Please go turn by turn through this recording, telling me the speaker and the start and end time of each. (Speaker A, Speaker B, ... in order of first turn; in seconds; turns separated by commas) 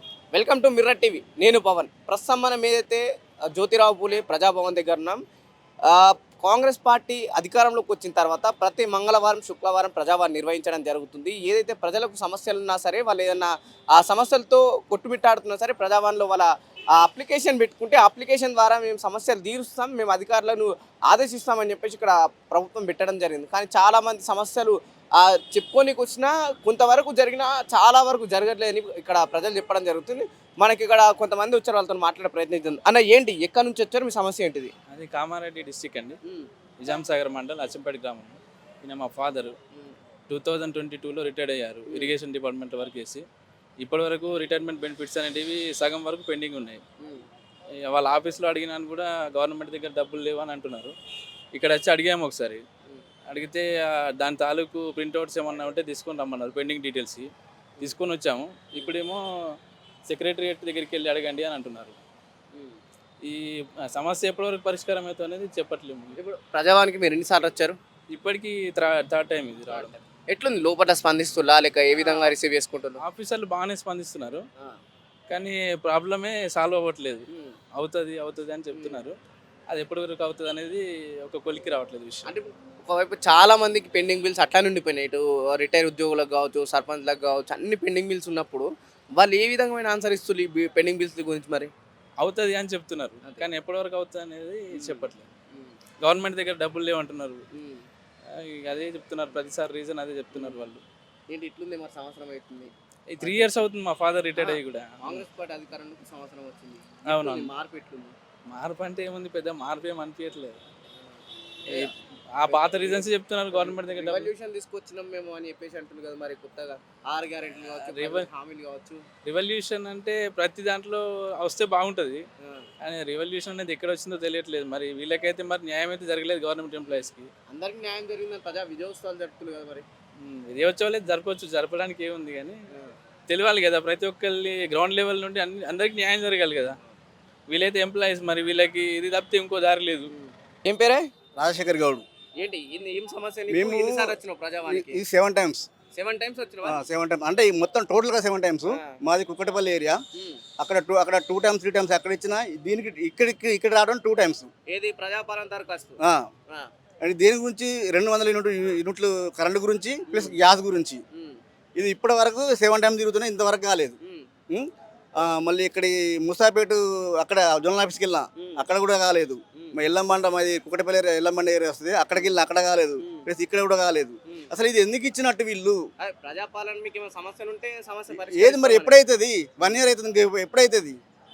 Speaker A: 0.3-5.2, Speaker A: 5.8-34.7, Speaker B: 34.9-36.2, Speaker B: 36.8-39.6, Speaker B: 40.3-43.2, Speaker A: 41.9-42.1, Speaker B: 43.8-46.8, Speaker A: 47.0-47.3, Speaker B: 47.9-50.9, Speaker B: 51.5-52.6, Speaker B: 53.3-53.6, Speaker B: 54.2-57.3, Speaker B: 57.8-59.2, Speaker B: 60.1-62.0, Speaker A: 62.5-62.8, Speaker B: 63.9-66.2, Speaker A: 66.2-67.8, Speaker B: 68.1-70.0, Speaker A: 69.7-73.0, Speaker B: 72.0-72.3, Speaker B: 73.0-74.4, Speaker B: 75.3-79.2, Speaker A: 77.3-77.6, Speaker A: 78.7-79.0, Speaker B: 79.7-82.3, Speaker A: 82.2-91.7, Speaker B: 92.2-95.3, Speaker A: 93.2-93.5, Speaker A: 94.7-95.8, Speaker B: 96.0-97.4, Speaker A: 97.5-97.9, Speaker B: 98.3-100.8, Speaker A: 100.3-100.7, Speaker A: 101.3-103.7, Speaker B: 103.1-105.3, Speaker A: 104.4-108.2, Speaker B: 107.0-107.5, Speaker B: 108.5-110.6, Speaker A: 111.7-119.0, Speaker B: 111.7-114.3, Speaker B: 117.8-118.3, Speaker B: 119.2-122.2, Speaker A: 122.4-122.7, Speaker B: 122.8-127.3, Speaker A: 126.8-129.9, Speaker B: 130.2-132.6, Speaker B: 133.3-136.8, Speaker B: 137.5-140.1, Speaker A: 140.1-141.1, Speaker C: 141.4-142.0, Speaker A: 142.4-145.0, Speaker C: 143.5-145.7, Speaker A: 145.9-146.8, Speaker C: 146.7-150.0, Speaker A: 148.7-149.0, Speaker A: 150.1-150.4, Speaker C: 150.6-154.5, Speaker A: 154.7-156.7, Speaker C: 157.0-161.0, Speaker A: 160.1-160.4, Speaker A: 161.1-161.4, Speaker C: 161.8-164.0, Speaker A: 164.0-164.3, Speaker C: 164.5-175.8, Speaker A: 168.4-168.6, Speaker A: 173.0-173.3, Speaker A: 176.0-179.0, Speaker C: 178.1-181.0